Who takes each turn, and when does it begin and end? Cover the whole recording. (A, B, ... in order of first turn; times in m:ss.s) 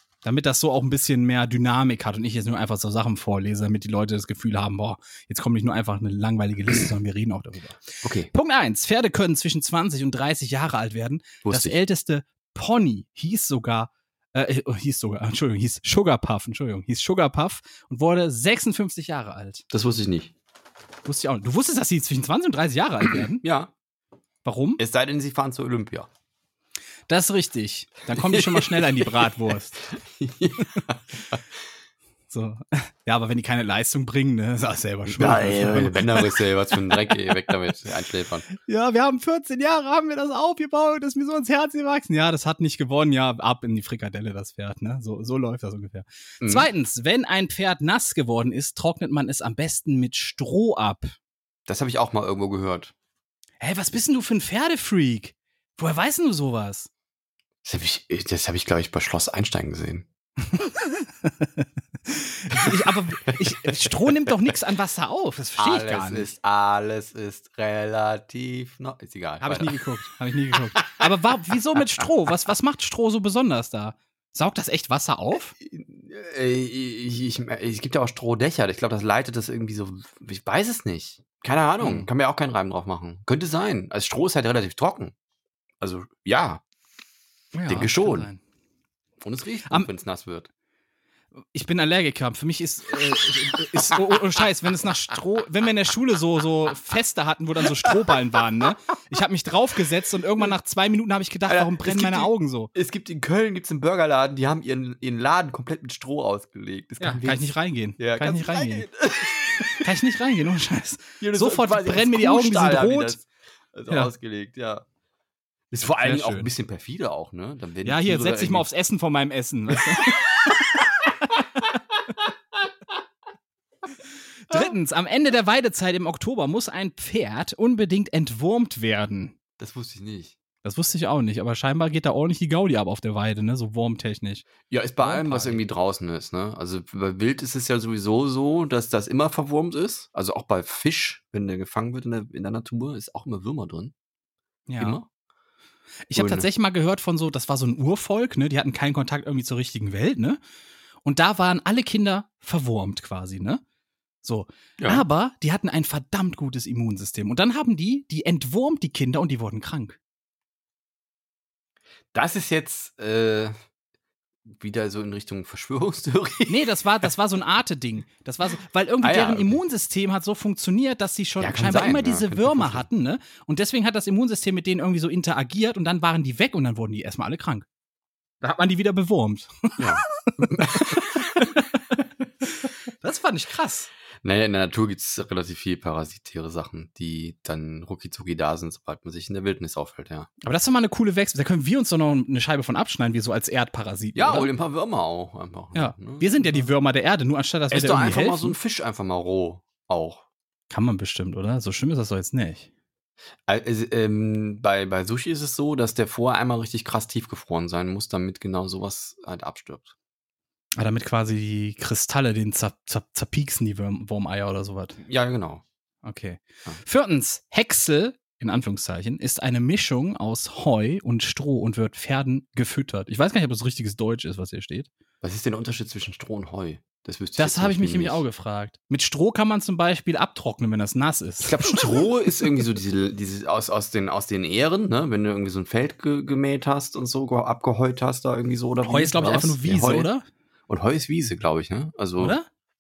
0:00.2-0:19.6 A
0:08.0-0:08.3 B
0:11.4-0:11.8 B
0:19.7-0:20.3 B
0:21.0-0:23.4 A
0:23.4-0:23.7 B
0:24.4-0:24.8 A
0:24.8-0:26.1 B
0:27.1-0:29.8 A
0:28.1-0:31.4 B
0:32.3-0:36.4 A
0:35.1-0:38.5 B
0:38.6-0:51.1 A
0:46.4-0:46.7 B
0:51.7-0:52.9 B
0:53.6-0:56.9 A
0:57.6-1:00.1 B
1:00.5-1:06.3 A
1:03.3-1:03.9 B
1:05.6-1:09.8 B
1:09.4-1:15.6 A
1:15.6-1:25.1 B
1:21.8-1:22.1 A
1:25.8-1:26.6 B
1:27.5-1:28.4 A
1:27.7-1:28.3 B
1:29.2-1:30.5 B
1:31.4-1:42.7 A
1:41.5-1:47.4 B
1:47.0-1:48.9 A
1:48.0-1:49.9 B
1:49.8-1:53.2 A
1:51.2-1:54.8 B
1:55.7-1:58.7 B
1:55.9-1:56.5 A
1:57.8-2:01.7 A
2:04.5-2:09.4 A
2:09.6-2:10.4 B
2:10.6-2:14.5 A
2:14.7-2:23.9 B
2:15.0-2:15.6 A
2:24.7-2:25.0 A
2:24.8-2:25.1 B
2:26.1-2:30.4 A
2:26.1-2:26.5 B
2:31.0-2:33.6 A
2:34.2-2:40.0 A
2:34.8-2:35.0 B
2:42.1-2:43.5 B
2:44.5-2:46.7 B
2:46.5-2:57.7 A
2:49.0-2:49.6 B
2:51.4-2:52.9 B
2:58.4-3:01.8 A
2:59.8-3:01.4 B
3:02.4-3:03.9 A
3:04.2-3:10.3 B
3:10.4-3:14.5 A
3:14.2-3:16.7 B
3:15.7-3:18.6 A
3:17.7-3:20.2 B
3:20.7-3:22.7 A
3:23.5-3:29.9 B
3:30.8-3:35.0 A
3:35.0-3:35.6 B
3:36.0-3:44.9 A
3:45.2-3:48.2 B
3:47.4-3:51.8 A
3:51.4-4:00.1 B
3:58.8-4:00.2 A
4:00.7-4:02.4 B
4:02.2-4:02.5 A